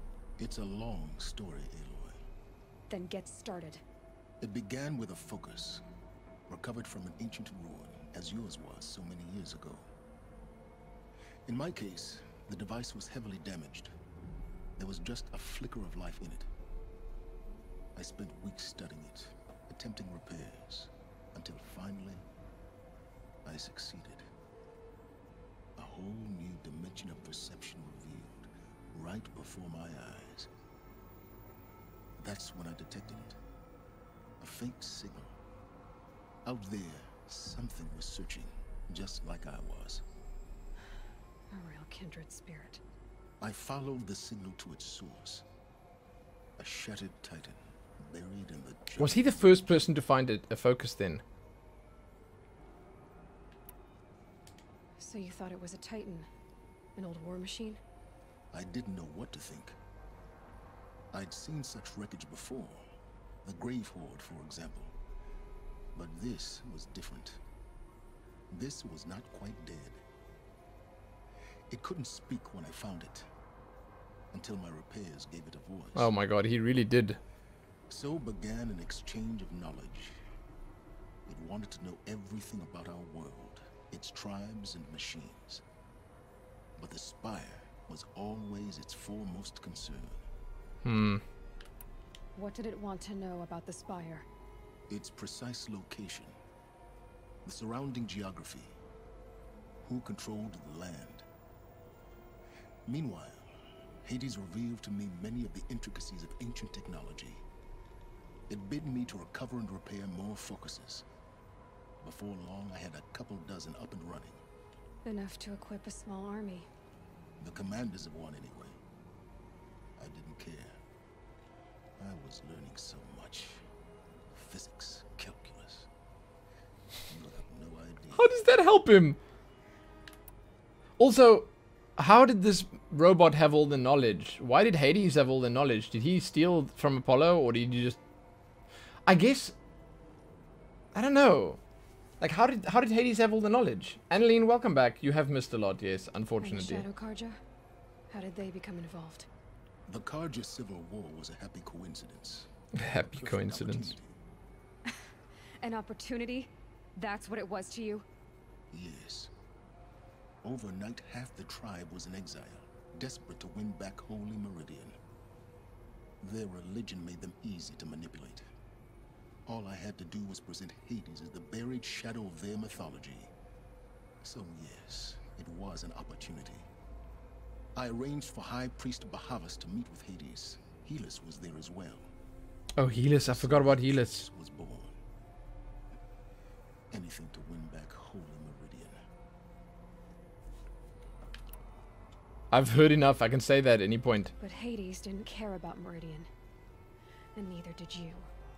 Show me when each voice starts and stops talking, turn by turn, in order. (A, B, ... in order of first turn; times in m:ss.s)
0:00.4-0:02.2 A
0:02.9-0:03.8 B
0:04.4-0:05.8 A
0:06.5-0:09.9 A
0:11.4-0:13.9 A
0:14.8-0:16.5 A
0:17.9-0:22.3 A
0:23.4-0:24.3 A
0:25.8-0:30.5 A
0:32.2-0:33.4 A
0:34.4-0:35.3 A
0:36.4-0:40.0 A
0:41.5-0:42.8 B
0:43.4-0:45.4 A
0:46.6-0:49.9 A
0:49.0-0:51.2 C
0:55.0-0:56.3 B
0:57.0-0:57.8 B
0:58.5-0:59.8 A
1:01.1-1:02.8 A
1:03.4-1:04.9 A
1:05.9-1:07.4 A
1:08.5-1:10.0 A
1:11.7-1:13.3 A
1:14.3-1:16.1 A
1:15.9-1:17.2 C
1:17.9-1:20.2 A
1:21.2-1:25.6 A
1:26.8-1:30.2 A
1:30.8-1:31.2 C
1:32.4-1:34.3 B
1:34.9-1:36.4 A
1:37.4-1:38.8 A
1:39.8-1:41.2 A
1:42.8-1:47.4 A
1:48.5-1:51.0 A
1:52.0-1:54.4 A
1:55.0-1:56.7 B
1:57.4-1:58.8 A
2:00.0-2:00.8 A
2:02.0-2:03.6 A
2:04.3-2:05.9 A
2:07.1-2:08.3 A
2:08.1-2:09.2 C
2:11.0-2:18.0 C
2:19.0-2:19.5 C
2:20.9-2:21.6 C
2:22.2-2:26.8 C
2:26.4-2:27.4 B
2:28.1-2:29.3 B
2:29.8-2:34.2 A
2:32.7-2:33.9 C
2:35.6-2:38.0 B
2:38.7-2:39.3 A
2:40.4-2:45.0 A
2:46.2-2:48.5 A
2:49.4-2:53.3 A
2:54.2-2:56.7 A
2:57.8-3:02.1 A
3:02.8-3:04.2 C
3:03.1-3:05.0 A
3:06.9-3:09.0 A
3:12.5-3:14.3 C
3:14.4-3:16.3 B
3:17.3-3:18.3 B